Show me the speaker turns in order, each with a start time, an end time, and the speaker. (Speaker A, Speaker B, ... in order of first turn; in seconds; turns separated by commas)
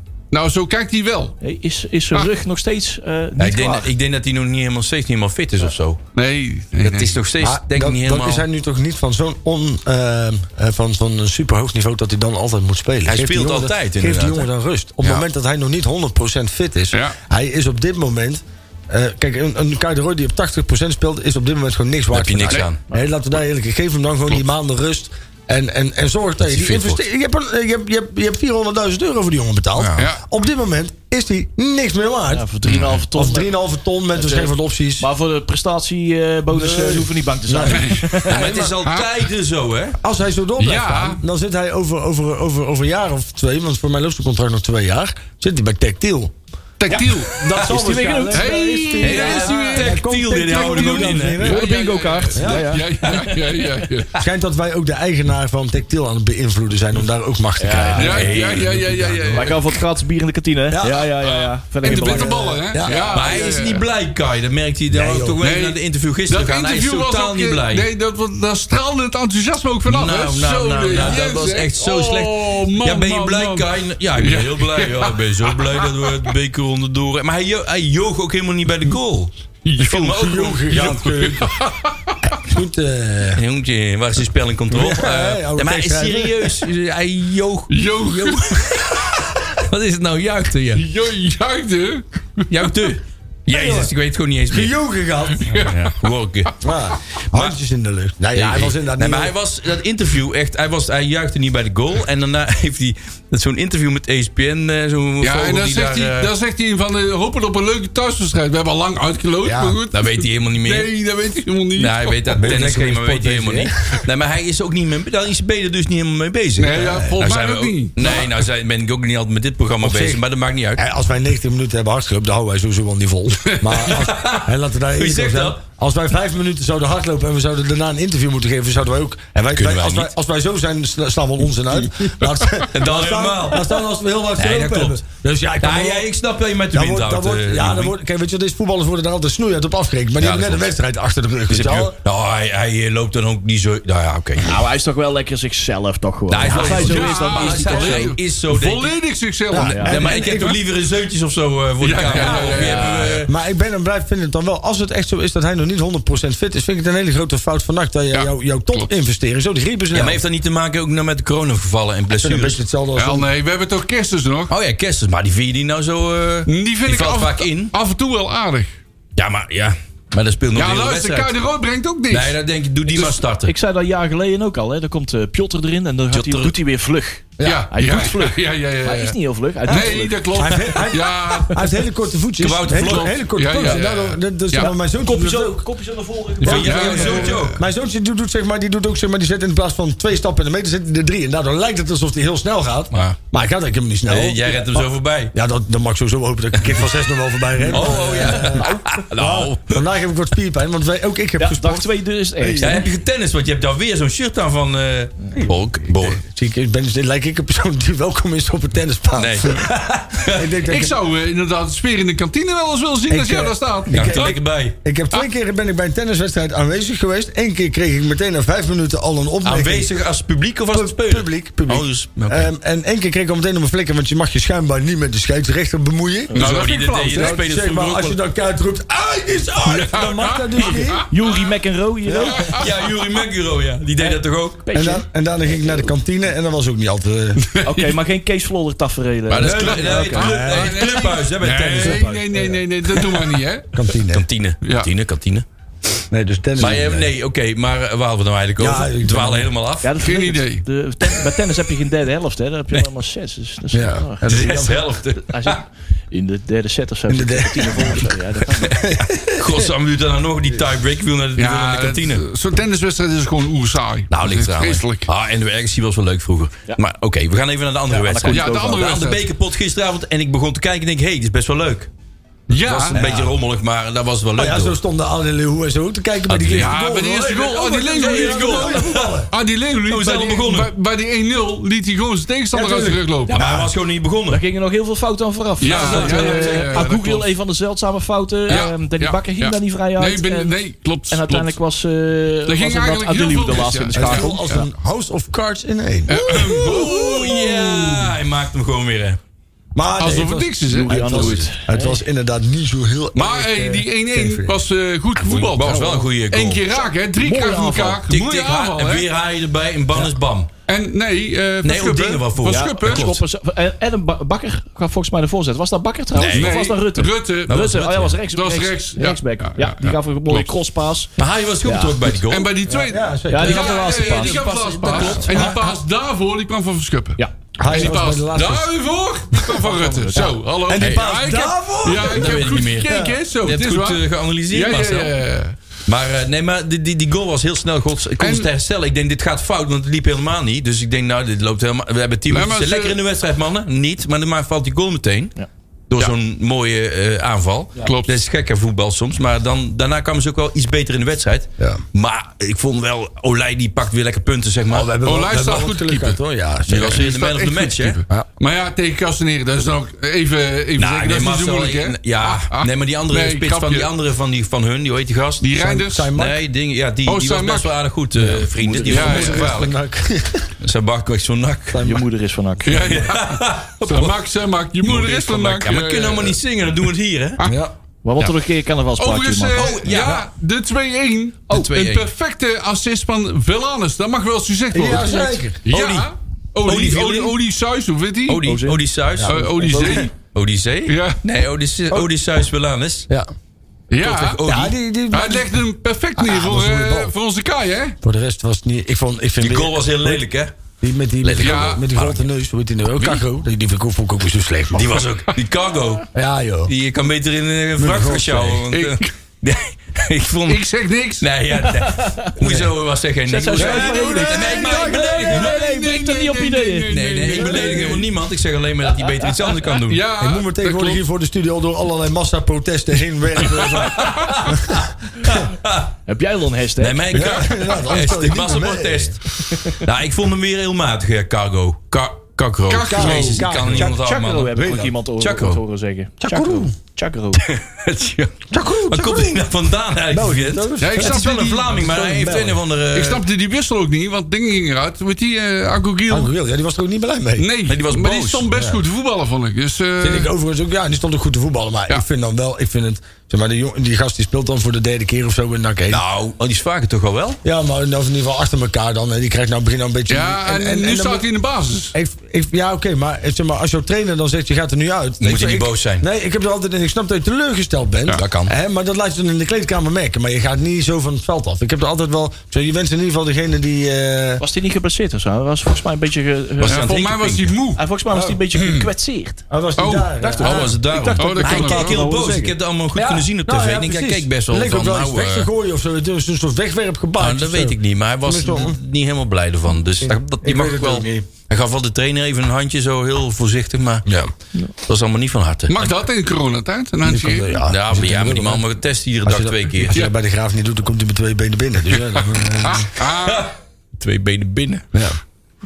Speaker A: 0.3-1.4, Speaker B: 1.4-3.9, Speaker C: 3.4-6.0, Speaker A: 6.2-7.2, Speaker C: 6.8-8.4, Speaker D: 7.4-32.5, Speaker C: 13.1-14.4, Speaker C: 22.1-22.8, Speaker C: 26.4-27.0, Speaker C: 29.8-30.1, Speaker A: 30.0-30.2, Speaker B: 32.3-33.5, Speaker C: 32.7-33.0, Speaker D: 33.1-35.1, Speaker B: 34.1-38.4, Speaker D: 36.5-38.8, Speaker A: 37.7-38.2, Speaker C: 38.3-40.0, Speaker A: 38.8-39.1, Speaker D: 40.0-46.4, Speaker A: 40.6-41.2, Speaker A: 46.8-47.4, Speaker D: 46.9-51.7, Speaker B: 46.9-48.6, Speaker A: 48.3-54.1, Speaker C: 49.0-51.5, Speaker B: 51.4-52.9, Speaker D: 52.3-52.8, Speaker C: 53.0-53.6, Speaker D: 54.2-59.5, Speaker B: 57.6-58.2, Speaker C: 58.0-59.1, Speaker A: 58.0-59.7, Speaker B: 59.3-63.2, Speaker D: 60.7-61.1, Speaker A: 61.3-63.9, Speaker D: 61.8-63.3, Speaker C: 63.1-67.9, Speaker D: 64.9-65.4, Speaker A: 65.4-76.3, Speaker C: 69.9-80.9, Speaker A: 79.7-82.4, Speaker D: 79.9-81.5, Speaker D: 82.5-83.4, Speaker C: 83.3-90.8, Speaker D: 84.7-86.7, Speaker A: 87.7-88.8, Speaker A: 90.7-92.8, Speaker C: 92.5-94.7, Speaker D: 93.5-93.9, Speaker D: 94.5-95.6, Speaker A: 95.4-96.1, Speaker C: 95.6-96.5, Speaker D: 96.6-99.3, Speaker C: 98.3-106.3, Speaker A: 105.2-112.7, Speaker D: 109.4-109.8, Speaker C: 109.9-110.9, Speaker C: 111.8-120.8, Speaker D: 112.3-114.0, Speaker A: 116.6-118.3, Speaker D: 119.8-120.2, Speaker D: 120.8-136.1, Speaker A: 123.5-123.9, Speaker C: 123.8-125.6, Speaker C: 129.5-130.1, Speaker A: 132.3-132.7, Speaker C: 132.7-133.8, Speaker C: 134.4-135.0, Speaker C: 135.6-137.9, Speaker D: 136.7-142.0, Speaker C: 140.2-140.7, Speaker C: 141.5-144.6, Speaker B: 144.4-148.1, Speaker C: 146.3-148.9, Speaker A: 146.5-150.5, Speaker D: 149.5-150.6, Speaker C: 149.6-153.3, Speaker B: 149.7-150.0, Speaker A: 151.8-153.3, Speaker D: 152.2-160.2, Speaker B: 152.4-152.8, Speaker A: 158.1-158.9, Speaker C: 159.9-162.6, Speaker D: 162.1-163.3, Speaker A: 163.0-164.5, Speaker C: 164.5-167.7, Speaker A: 166.5-168.7, Speaker C: 169.2-171.3, Speaker A: 170.6-172.4, Speaker C: 172.1-173.5, Speaker A: 172.9-173.2, Speaker B: 173.4-180.8, Speaker C: 176.1-176.6, Speaker D: 177.4-177.7, Speaker A: 177.4-181.6, Speaker D: 180.3-185.7, Speaker C: 182.4-183.2, Speaker A: 182.7-184.7, Speaker B: 184.6-187.4, Speaker C: 186.4-187.6, Speaker D: 186.4-202.8, Speaker A: 186.4-187.6, Speaker C: 192.9-193.2, Speaker C: 194.1-195.3, Speaker C: 196.6-196.9, Speaker C: 197.6-199.8, Speaker B: 197.7-198.8, Speaker B: 201.4-202.8, Speaker C: 202.6-206.2, Speaker D: 205.4-211.0, Speaker C: 209.2-210.5, Speaker A: 210.7-214.4, Speaker D: 213.1-220.0, Speaker C: 213.9-214.8, Speaker C: 219.4-222.5, Speaker D: 220.7-231.1, Speaker A: 226.3-227.4, Speaker C: 226.3-228.2, Speaker A: 229.6-231.5, Speaker B: 231.0-232.6, Speaker D: 232.1-232.5, Speaker A: 232.3-232.7, Speaker C: 232.5-234.6, Speaker B: 234.0-235.9, Speaker D: 234.7-237.5, Speaker A: 237.5-238.0, Speaker B: 237.6-240.3, Speaker C: 239.3-242.1, Speaker D: 239.4-240.9, Speaker A: 239.4-243.8, Speaker D: 241.8-242.1, Speaker B: 242.0-242.6, Speaker D: 243.7-244.3, Speaker C: 244.1-245.5, Speaker A: 244.6-244.9, Speaker D: 246.1-247.1, Speaker C: 246.6-249.9, Speaker D: 248.6-249.5, Speaker B: 249.8-258.8, Speaker A: 250.0-250.7, Speaker D: 253.7-254.9, Speaker C: 254.2-255.6, Speaker D: 257.1-258.2, Speaker D: 258.7-259.7, Speaker C: 259.4-262.2, Speaker A: 261.4-265.1, Speaker C: 264.1-271.9, Speaker B: 267.9-268.9, Speaker A: 268.3-269.3, Speaker A: 272.5-273.0, Speaker C: 272.5-274.8, Speaker D: 272.9-273.4, Speaker D: 274.4-279.3, Speaker C: 276.3-276.8, Speaker A: 276.5-283.4, Speaker C: 278.0-279.2, Speaker C: 279.9-280.7, Speaker D: 282.5-283.7, Speaker C: 283.3-284.4, Speaker B: 284.3-290.6, Speaker A: 285.6-287.3, Speaker C: 285.6-286.9, Speaker A: 288.5-291.6, Speaker B: 291.1-294.7, Speaker A: 292.5-294.6, Speaker D: 293.9-296.7, Speaker A: 296.1-298.2, Speaker C: 296.1-299.2, Speaker D: 299.8-304.6, Speaker A: 300.0-301.3, Speaker B: 300.7-302.0, Speaker C: 301.1-301.5, Speaker A: 303.1-309.1, Speaker C: 305.2-306.6, Speaker B: 307.2-308.0, Speaker C: 308.1-310.5, Speaker A: 310.7-313.1, Speaker C: 311.6-313.2, Speaker B: 312.4-322.1, Speaker C: 316.1-316.7, Speaker A: 316.3-320.5, Speaker C: 317.5-318.1, Speaker C: 321.2-322.5, Speaker A: 322.3-335.6, Speaker D: 322.7-323.7, Speaker B: 323.3-325.2, Speaker C: 323.4-325.6, Speaker D: 324.9-325.8, Speaker B: 327.2-327.8, Speaker D: 327.6-328.7, Speaker B: 329.6-330.3, Speaker D: 330.1-333.2, Speaker C: 330.8-331.2, Speaker C: 332.0-335.1, Speaker C: 335.9-345.4, Speaker A: 338.2-338.5, Speaker A: 342.3-343.0, Speaker C: 345.9-354.9, Speaker A: 347.8-348.2, Speaker D: 354.7-357.2, Speaker A: 355.0-356.2, Speaker C: 356.7-358.0, Speaker A: 356.8-363.9, Speaker C: 360.8-365.5, Speaker A: 365.4-366.1, Speaker D: 365.6-366.4, Speaker C: 366.1-369.7, Speaker A: 367.1-367.8, Speaker D: 368.2-370.5, Speaker A: 368.9-369.7, Speaker C: 370.6-372.0, Speaker D: 371.7-372.0, Speaker B: 371.8-373.1, Speaker A: 372.6-376.4, Speaker C: 372.9-374.2, Speaker C: 374.9-377.4, Speaker D: 377.4-377.7, Speaker B: 378.0-379.8, Speaker A: 379.0-388.4, Speaker C: 379.6-380.3, Speaker C: 381.5-382.1, Speaker D: 384.7-385.6, Speaker C: 385.7-386.1, Speaker C: 386.6-387.3, Speaker C: 388.3-389.4, Speaker B: 388.4-390.1, Speaker D: 389.2-390.0, Speaker A: 389.3-390.1, Speaker C: 389.9-393.1, Speaker A: 390.9-391.2, Speaker A: 393.9-394.4, Speaker C: 394.0-394.7, Speaker D: 394.4-395.6, Speaker A: 395.1-398.0, Speaker D: 396.2-397.1, Speaker D: 398.0-400.3, Speaker C: 399.4-400.5, Speaker D: 400.8-405.1, Speaker C: 401.2-402.2, Speaker A: 401.4-401.9, Speaker C: 404.7-406.1, Speaker D: 406.1-406.7, Speaker C: 406.7-410.6, Speaker D: 407.8-408.7, Speaker A: 408.7-409.1, Speaker A: 410.5-411.3, Speaker C: 411.2-415.4, Speaker B: 411.6-412.4, Speaker B: 413.3-417.5, Speaker D: 413.5-416.1, Speaker A: 414.9-418.1, Speaker C: 416.9-420.0, Speaker D: 417.5-417.9, Speaker A: 419.9-421.0, Speaker D: 420.2-424.9, Speaker C: 423.8-425.9, Speaker A: 423.9-424.3, Speaker B: 426.1-427.3, Speaker C: 426.8-435.6, Speaker D: 427.1-429.7, Speaker A: 432.7-433.5, Speaker D: 432.9-434.0, Speaker B: 433.7-437.4, Speaker D: 434.6-434.9, Speaker D: 436.2-436.7, Speaker C: 437.4-443.2, Speaker D: 438.5-439.5, Speaker D: 440.1-442.6, Speaker A: 440.8-441.9, Speaker A: 442.9-446.3, Speaker D: 446.1-447.5, Speaker A: 447.4-450.3, Speaker C: 447.7-448.4, Speaker D: 448.5-448.8, Speaker D: 450.0-456.0, Speaker C: 455.9-457.4, Speaker D: 457.4-461.3, Speaker A: 460.1-461.9, Speaker D: 461.9-474.4, Speaker C: 465.2-466.1, Speaker C: 468.1-468.5, Speaker B: 474.4-476.9, Speaker C: 476.6-477.5, Speaker A: 476.6-477.8, Speaker B: 477.8-479.4, Speaker D: 478.1-478.4, Speaker A: 478.5-478.9, Speaker D: 479.5-488.8, Speaker A: 479.8-480.1, Speaker B: 480.2-482.5, Speaker C: 480.4-485.5, Speaker A: 481.2-482.0, Speaker C: 487.2-494.1, Speaker D: 490.0-491.3, Speaker C: 494.8-495.8, Speaker A: 495.7-497.6, Speaker D: 497.0-498.6, Speaker C: 497.6-500.0, Speaker D: 499.2-502.9, Speaker A: 502.1-503.5, Speaker C: 503.0-504.9